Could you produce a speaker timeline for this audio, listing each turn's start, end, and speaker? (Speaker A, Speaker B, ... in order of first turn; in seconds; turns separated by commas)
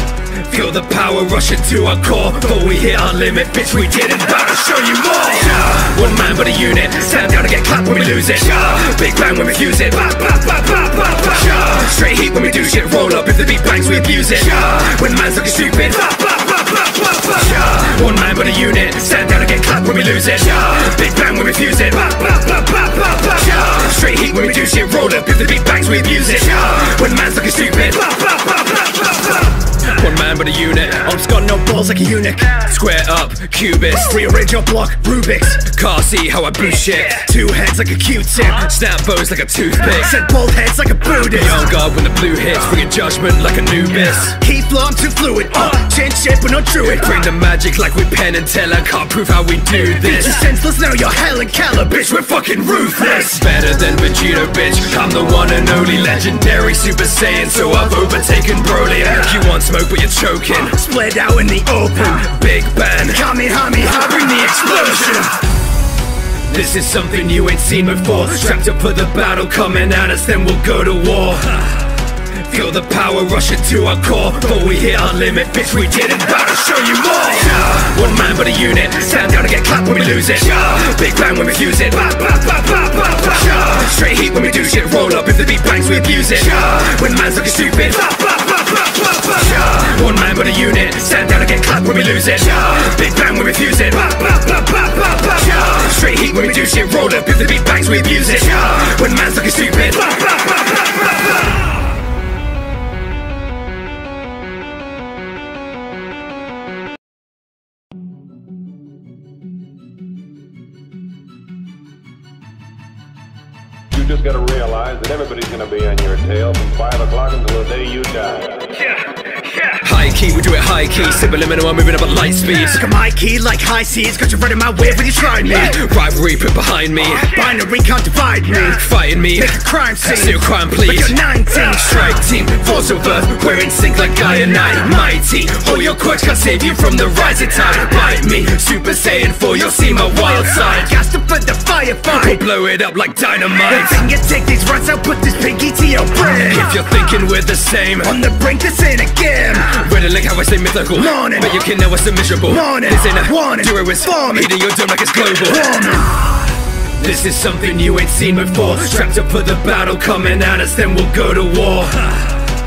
Speaker A: 0.3-16.5, Speaker A: 17.2-28.4, Speaker A: 29.8-31.1, Speaker B: 31.1-32.7, Speaker A: 32.6-34.2, Speaker B: 34.1-35.7, Speaker A: 35.6-37.3, Speaker B: 37.2-38.6, Speaker A: 38.5-40.1, Speaker B: 40.0-41.5, Speaker A: 41.4-44.4, Speaker B: 44.4-47.1, Speaker A: 47.0-50.4, Speaker B: 50.2-52.1, Speaker A: 52.0-60.8, Speaker B: 60.8-62.4, Speaker A: 62.3-63.2, Speaker B: 63.1-65.0, Speaker A: 65.0-65.3, Speaker A: 66.5-71.8, Speaker A: 72.3-88.5, Speaker A: 89.2-100.4, Speaker C: 113.9-118.8, Speaker A: 119.8-122.8, Speaker B: 122.8-125.8, Speaker A: 125.7-127.3, Speaker B: 127.3-128.8, Speaker A: 128.8-140.9, Speaker B: 129.4-131.8, Speaker B: 140.8-142.4, Speaker A: 142.3-144.0, Speaker B: 143.8-146.6, Speaker A: 146.5-148.1, Speaker B: 148.0-149.8, Speaker A: 149.7-155.7, Speaker B: 155.7-156.0, Speaker A: 157.0-162.3